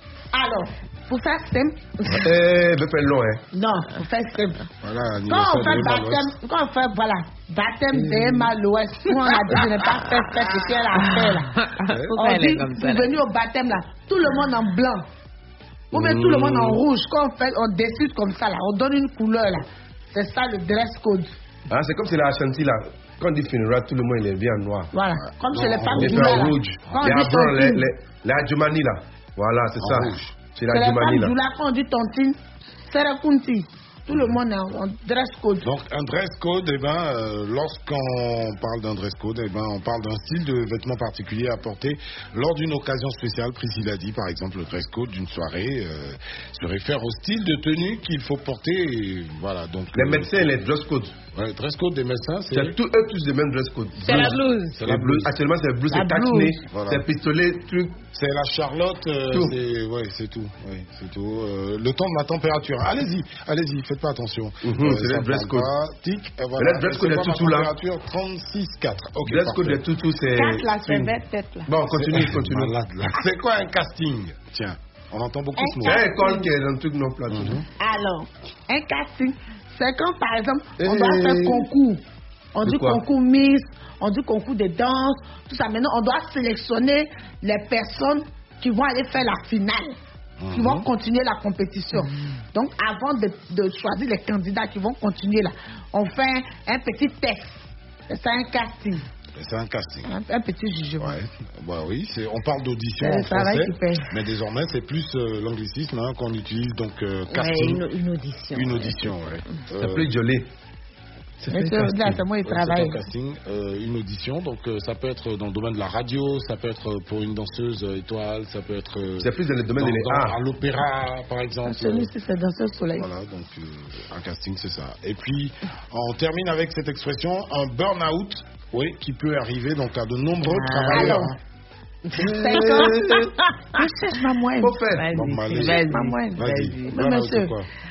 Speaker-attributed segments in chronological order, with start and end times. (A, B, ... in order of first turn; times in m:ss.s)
0:00.3-0:02.2 A
0:02.1-0:03.4 B
0:03.5-0:04.7 A
0:04.8-0:06.3 C
0:05.3-0:11.5 A
0:09.1-0:10.4 D
0:10.9-0:13.1 D
0:12.1-0:15.0 A
0:15.9-0:16.8 B
0:15.9-0:21.3 A
0:21.7-0:24.9 B
0:24.9-0:27.8 A
0:25.5-0:27.1 C
0:25.9-0:31.3 B
0:29.8-0:30.3 C
0:30.7-0:35.7 A
0:34.1-0:34.4 C
0:35.6-0:50.6 C
0:49.9-0:51.2 B
0:51.3-0:52.8 C
0:52.5-0:58.0 B
0:54.0-0:54.8 D
0:54.0-0:55.3 C
0:55.9-0:56.6 A
0:56.7-0:57.0 C
0:58.1-1:09.8 C
0:59.3-0:59.6 B
1:04.6-1:05.7 B
1:06.6-1:07.7 B
1:09.2-1:11.1 B
1:10.3-1:11.7 A
1:11.7-1:12.7 B
1:11.9-1:16.0 C
1:15.6-1:16.5 A
1:15.8-1:17.6 B
1:17.3-1:17.6 C
1:17.8-1:22.0 A
1:20.8-1:21.7 B
1:22.5-1:30.0 A
1:22.6-1:23.0 B
1:30.4-1:30.9 C
1:30.5-1:39.0 A
1:39.4-1:40.1 C
1:40.0-1:41.2 A
1:41.0-1:47.8 C
1:43.0-1:44.1 A
1:47.3-1:49.1 D
1:48.5-1:50.1 C
1:49.7-1:50.5 B
1:51.4-1:52.2 B
1:51.5-1:53.0 A
1:52.4-2:02.1 C
1:59.2-2:00.4 B
2:01.6-2:03.1 A
2:02.9-2:11.4 C
2:10.4-2:11.2 D
2:10.9-2:11.4 A
2:12.1-2:13.8 D
2:12.1-2:13.2 A
2:12.1-2:13.3 B
2:13.7-2:14.8 A
2:14.6-2:15.1 B
2:14.9-2:17.0 D
2:15.1-2:17.7 C
2:15.5-2:17.6 A